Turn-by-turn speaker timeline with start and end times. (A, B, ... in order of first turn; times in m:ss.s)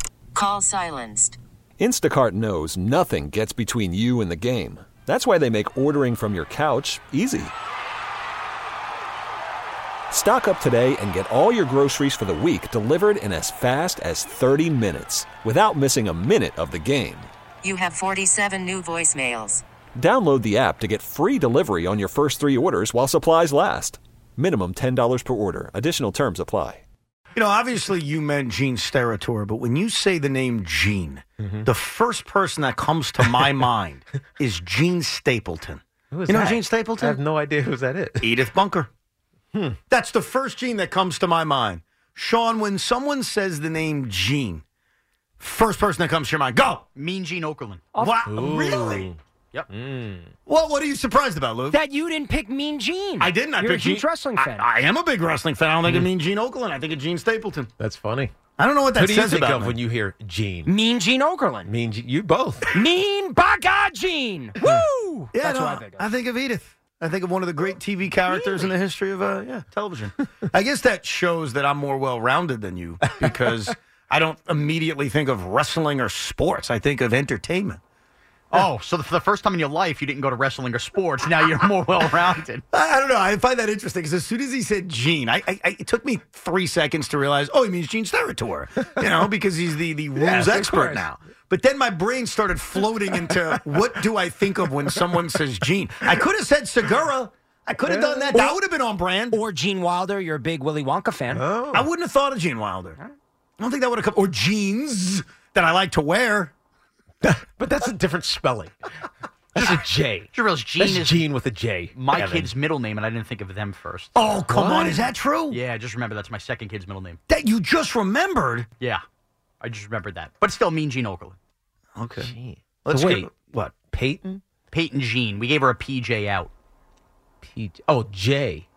0:00.3-0:01.4 A
0:01.8-0:07.5 B
0:10.1-0:17.3 B
0:17.6-0:19.6 A
0:20.0-0:26.8 B
0:27.3-0:37.2 C
0:36.1-0:38.3 D
0:38.2-0:38.9 C
0:39.9-0:44.6 C
0:45.4-0:46.8 C
0:47.0-0:48.0 E
0:47.9-0:49.1 C
0:48.2-0:49.2 D
0:49.7-0:50.3 D
0:50.4-0:51.8 C
0:51.7-0:54.7 F
0:53.2-0:57.7 C
0:57.8-0:58.3 D
0:58.6-0:59.8 C
0:58.9-1:00.8 D
1:00.6-1:01.7 F
1:01.6-1:02.8 D
1:02.7-1:06.1 F
1:04.6-1:17.8 C
1:18.5-1:22.6 E
1:22.7-1:39.4 C
1:30.2-1:31.1 D
1:37.8-1:38.3 D
1:38.3-1:38.6 F
1:39.3-1:41.4 F
1:41.3-1:41.9 D
1:41.7-1:43.0 C
1:43.6-1:46.5 C
1:47.2-1:48.7 D
1:49.5-1:52.5 D
1:49.6-1:51.2 E
1:51.9-1:54.2 E
1:54.2-1:55.6 C
1:54.5-1:55.1 D
1:55.5-1:57.2 E
1:57.3-1:58.7 C
1:59.6-2:01.4 E
2:02.0-2:02.3 C
2:02.2-2:03.3 D
2:02.8-2:03.8 C
2:03.8-2:04.4 D
2:04.7-2:06.5 E
2:07.4-2:08.6 D